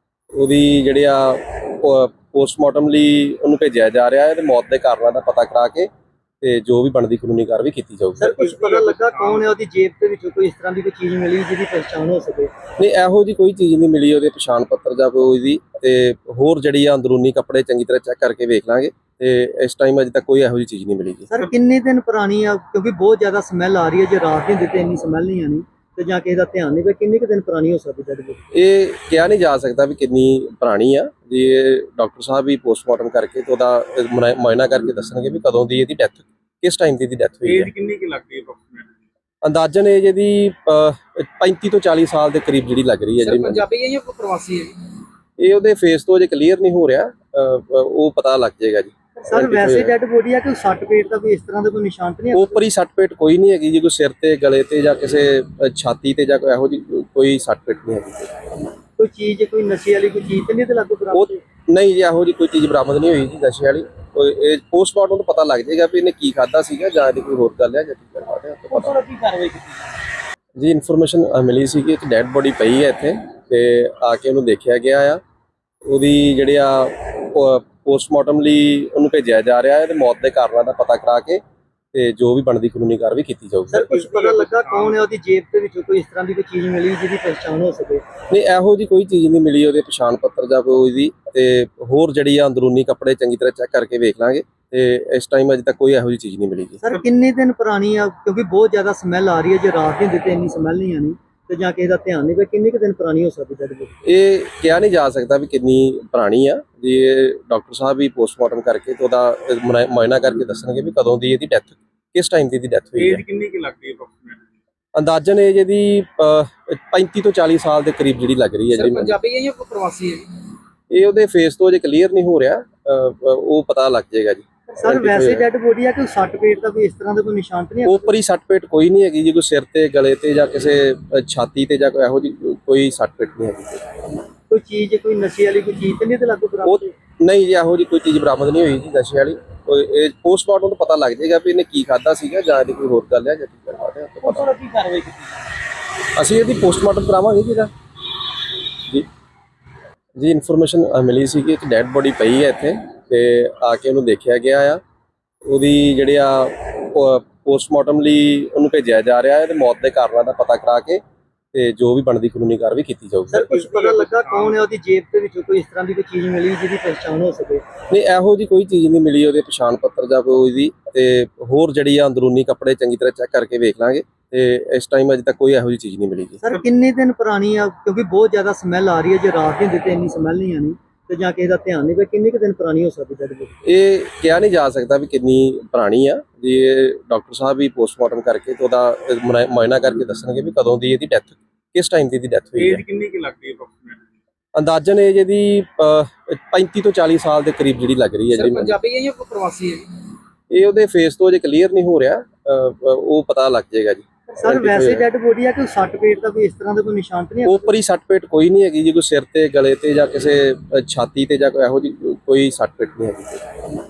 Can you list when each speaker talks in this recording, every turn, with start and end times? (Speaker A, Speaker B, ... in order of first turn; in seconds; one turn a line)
Speaker A: 0.3-5.9
Speaker A: 6.4-8.3
Speaker B: 8.2-12.5
Speaker C: 8.4-9.5
Speaker A: 12.8-21.3
Speaker B: 21.3-28.4
Speaker A: 28.5-37.7
Speaker C: 37.5-38.9
Speaker A: 39.4-43.6
Speaker C: 43.2-44.7
Speaker A: 45.4-49.9
Speaker B: 49.2-52.6
Speaker A: 52.3-58.4
Speaker B: 59.0-61.4
Speaker A: 61.1-69.0
Speaker B: 68.7-69.9
Speaker A: 70.6-75.2
Speaker A: 75.8-81.4
Speaker A: 81.9-84.1
Speaker B: 83.7-88.0
Speaker C: 84.2-85.0
Speaker A: 88.3-96.8
Speaker B: 96.8-104.0
Speaker A: 104.0-113.2
Speaker C: 113.0-114.4
Speaker A: 114.9-119.1
Speaker C: 118.7-120.3
Speaker A: 120.9-125.4
Speaker B: 124.7-128.1
Speaker A: 127.8-133.8
Speaker B: 134.5-136.9
Speaker A: 136.6-144.5
Speaker B: 144.2-145.4
Speaker A: 146.2-147.7
Speaker A: 150.2-154.8
Speaker A: 155.4-161.0
Speaker A: 161.5-163.7
Speaker B: 163.3-167.6
Speaker C: 163.8-164.6
Speaker A: 167.9-176.4
Speaker B: 176.4-183.6
Speaker A: 183.6-192.8
Speaker C: 192.6-194.0
Speaker A: 194.5-198.7
Speaker C: 198.3-199.9
Speaker A: 200.5-205.0
Speaker B: 204.3-207.7
Speaker A: 207.4-213.5